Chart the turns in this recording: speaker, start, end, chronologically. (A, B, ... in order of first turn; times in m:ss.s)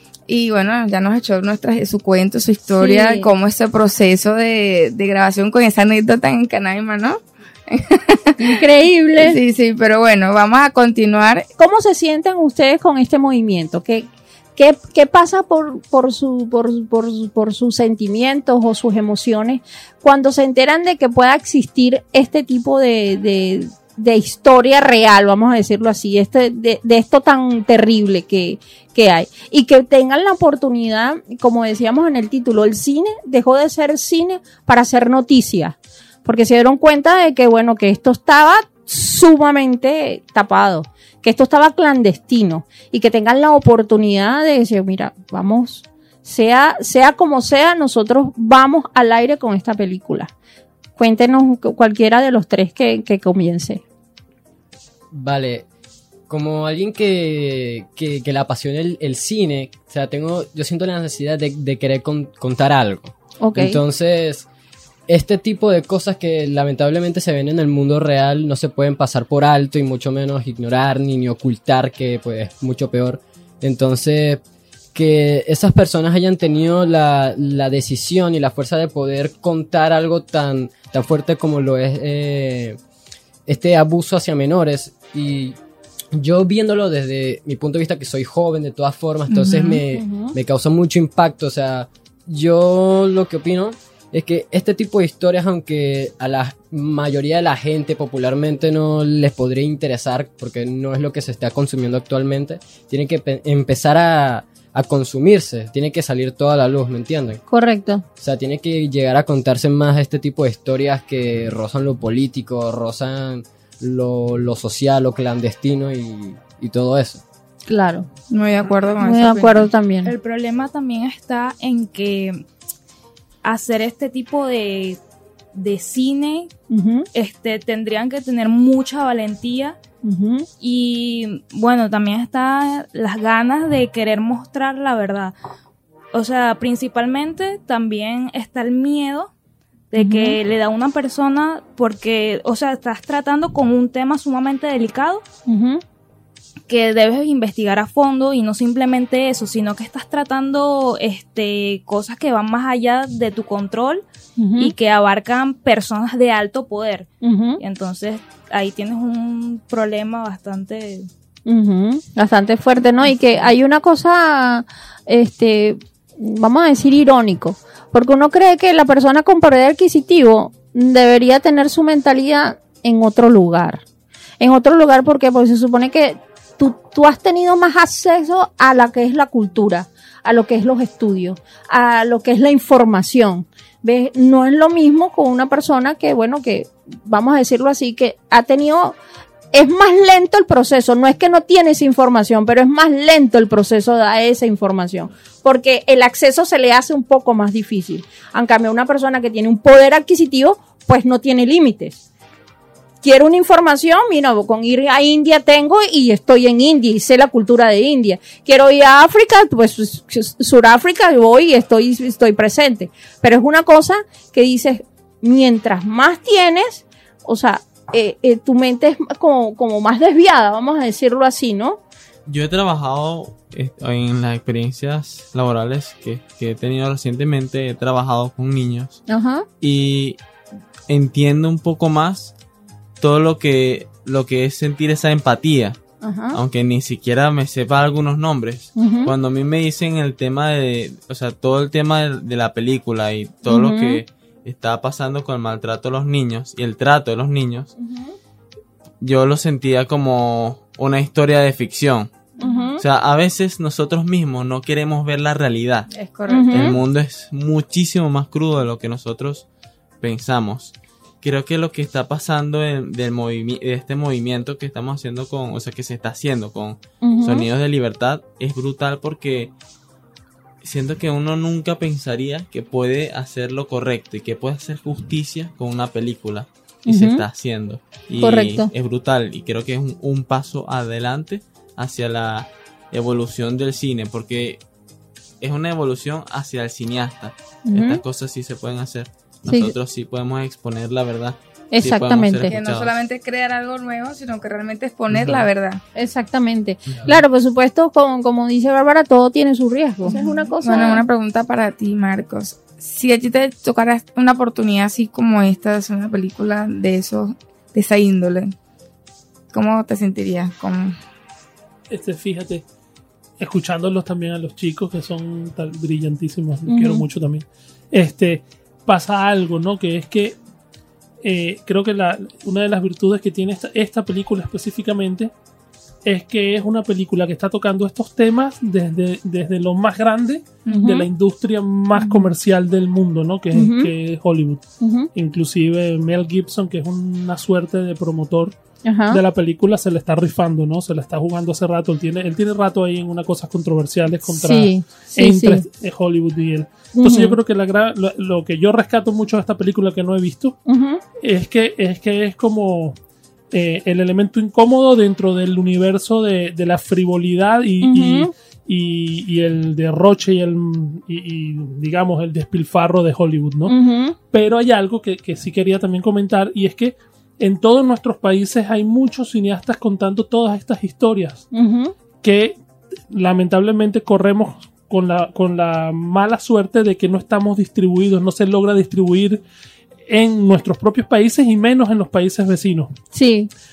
0:00.3-0:08.5 A
0:02.8-0:03.3 B
0:08.4-0:09.4 B
0:09.2-0:11.4 A
0:11.6-0:50.3 B
0:51.0-0:53.8 B
0:55.1-0:55.6 C
0:56.3-1:04.5 C
1:03.4-1:03.8 B
1:05.1-1:14.4 C
1:14.9-1:22.8 C
1:23.4-1:25.6 C
1:26.1-1:47.4 C
1:29.5-1:29.8 A
1:29.8-1:30.3 B
1:47.5-1:48.0 B
1:48.2-1:57.2 C
1:57.7-1:58.1 B
1:58.3-1:59.7 A
1:59.0-2:00.1 B
2:00.0-2:02.4 D
2:03.4-2:05.0 D
2:05.5-2:06.5 D
2:06.7-2:07.1 B
2:07.1-2:09.8 D
2:10.0-2:10.5 B
2:10.6-2:15.3 D
2:16.1-2:19.3 D
2:19.9-2:25.2 D
2:20.0-2:20.4 B
2:25.5-2:25.8 B
2:26.7-2:34.0 D
2:34.4-2:34.7 B
2:34.6-2:41.1 D
2:37.2-2:37.6 B
2:41.4-2:53.8 B
2:54.4-3:09.0 B
3:09.5-3:22.0 B
3:23.0-3:41.8 B
3:42.3-3:49.0 E
3:49.1-3:49.4 B
3:49.6-3:50.2 E
3:50.9-3:52.3 E
3:53.0-3:55.8 E
3:56.0-3:56.4 B
3:56.3-4:07.7 E
3:58.8-3:59.1 B
4:03.5-4:04.0 B
4:07.8-4:08.1 B
4:09.0-4:12.1 E
4:12.4-4:12.8 B
4:12.8-4:15.9 E
4:15.9-4:16.7 A
4:16.3-4:16.8 B
4:16.5-4:19.4 E
4:20.0-4:29.5 E
4:27.0-4:27.5 B
4:30.6-4:44.6 E
4:36.9-4:37.2 B
4:38.2-4:38.7 B
4:45.4-4:52.9 E
4:47.7-4:48.0 B
4:49.5-4:49.7 B
4:51.7-4:52.5 B
4:52.4-4:55.8 A
4:55.1-4:55.4 E
4:55.9-5:01.0 B
4:56.9-4:57.2 E
5:00.0-5:08.5 A
5:09.5-5:11.0 A
5:11.9-5:12.6 F
5:13.4-5:20.4 F
5:16.7-5:17.0 B
5:21.2-5:25.3 F
5:26.0-5:34.6 F
5:30.6-5:31.0 A
5:30.7-5:31.0 B
5:33.5-5:33.9 B
5:34.8-5:35.1 B
5:35.1-5:38.6 F
5:38.8-5:39.2 B
5:39.1-5:50.6 F
5:44.3-5:45.6 B
5:46.9-5:47.4 B
5:50.7-5:51.0 B
5:51.2-5:53.0 F
5:53.5-6:03.8 F
5:57.8-5:58.3 B
6:03.7-6:04.2 B
6:04.3-6:11.4 F
6:11.5-6:11.9 B
6:12.2-6:12.6 F
6:13.1-6:19.4 F
6:20.1-6:22.9 F
6:23.1-6:23.5 B